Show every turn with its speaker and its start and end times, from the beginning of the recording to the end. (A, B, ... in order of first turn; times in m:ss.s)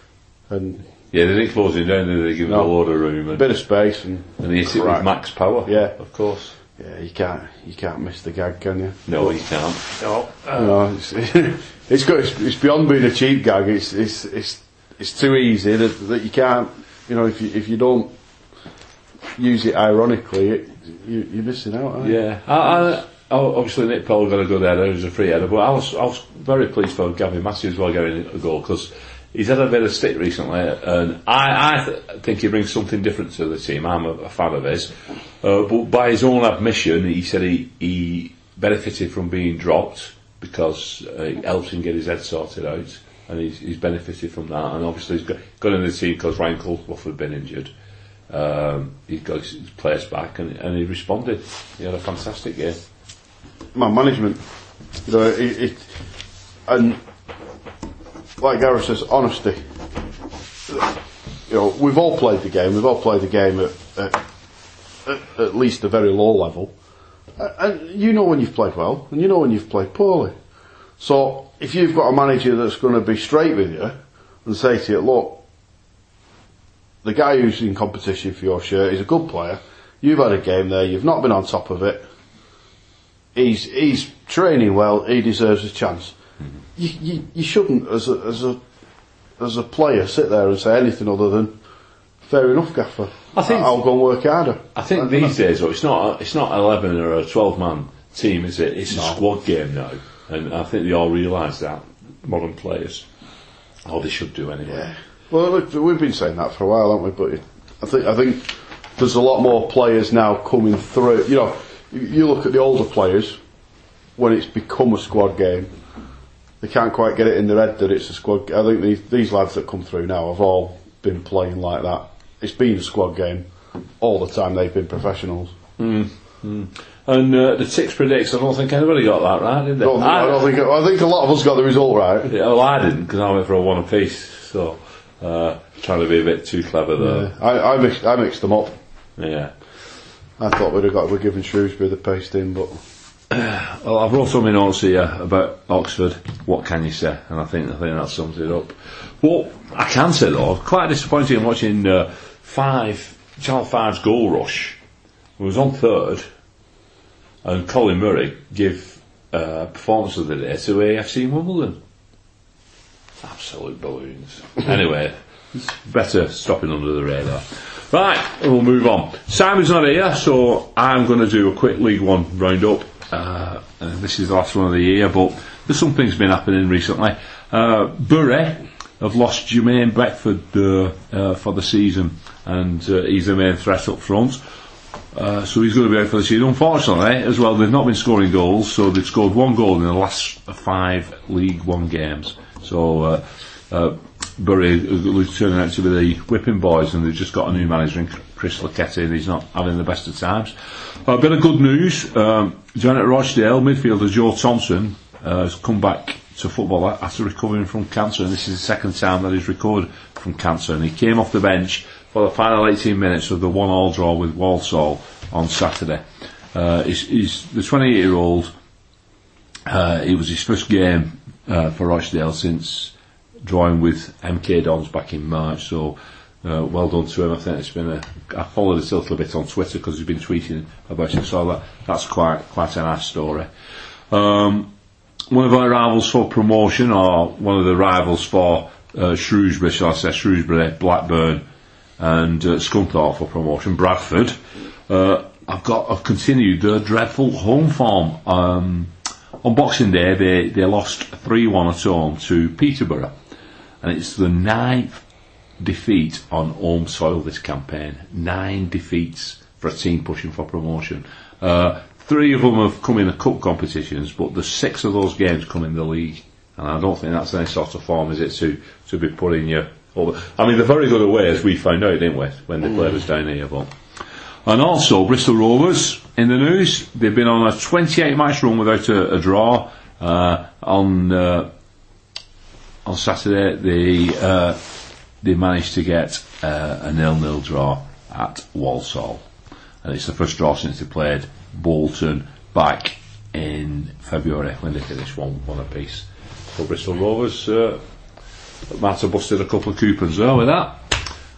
0:00.5-0:00.9 A
0:01.1-0:03.4 B
0:02.5-0:02.8 A
0:03.3-0:05.1 A
0:04.4-0:06.6 B
0:05.6-0:06.0 A
0:06.7-0:09.4 A
0:09.1-0:10.8 B
0:10.5-0:18.1 A
0:19.4-0:22.2 A
0:22.0-0:47.7 B
0:48.3-0:52.8 B
0:53.7-0:54.4 A
0:55.0-0:55.9 A
0:56.6-0:57.0 A
0:58.4-0:59.6 A
1:00.7-1:00.9 A
1:01.5-1:04.2 A
1:05.0-1:06.7 A
1:07.4-1:10.3 A
1:11.0-1:15.4 A
1:17.0-1:22.1 A
1:23.3-1:26.2 A
1:26.8-1:28.6 A
1:29.4-1:31.5 A
1:32.2-1:35.3 A
1:33.3-1:33.8 B
1:34.7-1:43.1 B
1:38.9-1:39.2 A
1:43.8-1:44.9 B
1:44.7-1:53.4 A
1:54.2-1:55.7 A
1:56.6-2:03.5 A
2:04.0-2:05.5 A
2:05.8-2:10.5 B
2:09.8-2:12.3 A
2:12.3-2:17.3 B
2:17.0-2:18.8 A
2:19.2-2:19.5 B
2:20.4-2:22.8 A
2:23.3-2:34.8 B
2:35.4-2:36.2 B
2:37.4-2:41.8 B
2:43.2-3:04.4 B
3:05.1-3:38.5 B
3:39.6-3:53.5 B
3:54.1-3:54.7 B
3:55.3-4:01.4 B
4:02.0-4:04.4 B
4:04.9-4:13.1 B
4:13.8-4:15.0 B
4:15.6-4:33.7 B
4:34.4-4:41.5 B
4:42.8-4:44.6 B
4:45.2-4:49.2 B
4:49.8-4:57.8 B
4:58.7-5:01.0 B